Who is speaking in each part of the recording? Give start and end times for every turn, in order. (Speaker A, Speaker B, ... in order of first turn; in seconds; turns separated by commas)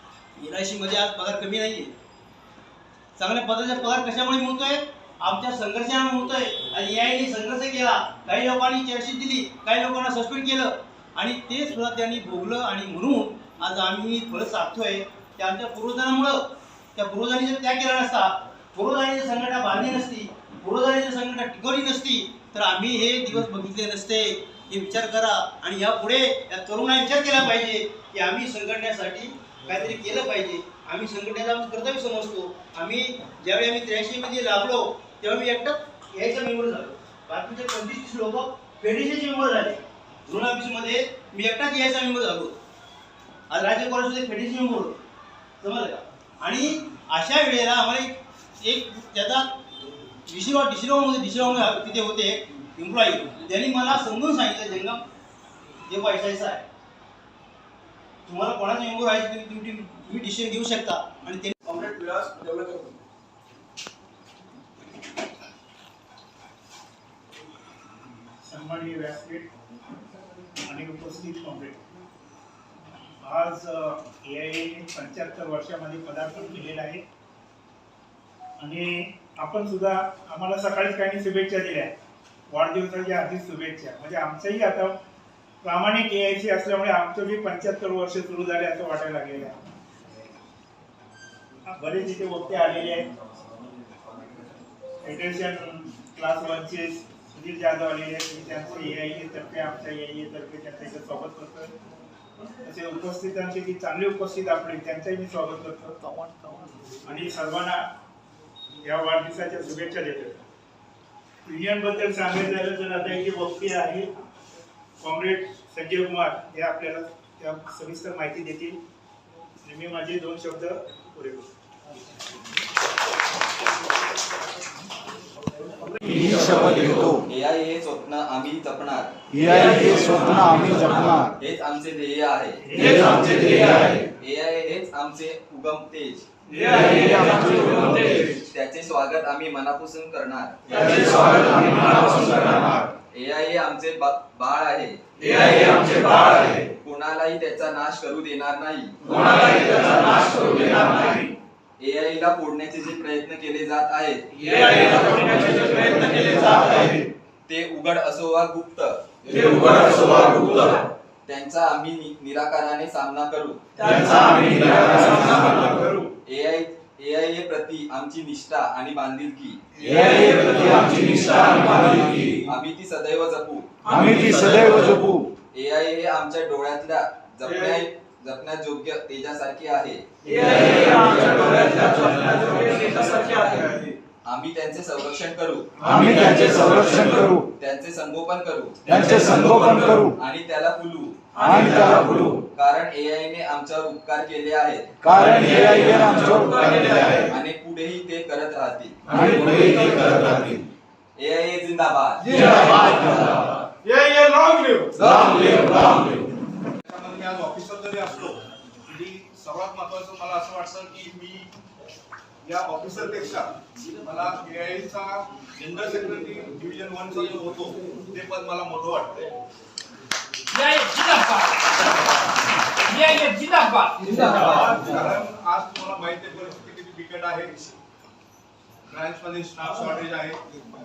Speaker A: 0.3-1.9, Speaker A: 3.2-16.4, Speaker A: 16.9-42.5, Speaker A: 43.5-45.0, Speaker A: 45.6-49.5, Speaker A: 50.3-55.0, Speaker A: 55.8-56.6, Speaker A: 58.2-61.5, Speaker B: 61.6-63.0, Speaker C: 68.4-69.5, Speaker C: 70.7-71.8, Speaker C: 73.2-77.0, Speaker C: 78.6-81.9, Speaker C: 82.5-85.0, Speaker C: 85.6-89.6, Speaker C: 91.7-93.1, Speaker C: 95.0-101.7, Speaker C: 102.6-106.1, Speaker C: 107.0-107.9, Speaker C: 108.8-110.4, Speaker C: 111.5-114.1, Speaker C: 115.0-118.8, Speaker C: 119.6-121.5, Speaker B: 126.1-126.7, Speaker D: 127.2-129.2, Speaker B: 129.4-131.0, Speaker D: 131.1-132.7, Speaker B: 132.8-133.9, Speaker D: 134.2-136.2, Speaker B: 136.5-138.3, Speaker D: 138.4-140.8, Speaker B: 140.7-142.7, Speaker D: 143.1-145.7, Speaker B: 145.6-146.6, Speaker D: 146.8-149.2, Speaker B: 149.1-151.2, Speaker D: 151.8-154.2, Speaker B: 154.4-156.9, Speaker D: 157.4-159.0, Speaker B: 159.3-160.7, Speaker D: 161.2-163.6, Speaker B: 163.8-166.0, Speaker D: 166.2-171.1, Speaker B: 170.2-171.7, Speaker D: 171.8-173.7, Speaker B: 173.9-175.1, Speaker D: 175.5-180.1, Speaker B: 180.3-184.0, Speaker D: 181.0-181.6, Speaker D: 184.2-191.2, Speaker B: 185.8-187.3, Speaker B: 191.3-192.3, Speaker D: 192.5-195.9, Speaker B: 195.4-197.2, Speaker D: 197.3-199.6, Speaker B: 199.1-200.4, Speaker D: 201.2-202.8, Speaker B: 204.1-204.8, Speaker E: 206.8-211.5, Speaker E: 212.4-219.3, Speaker F: 220.5-221.9, Speaker F: 222.9-224.3, Speaker E: 224.3-227.7, Speaker E: 228.9-230.4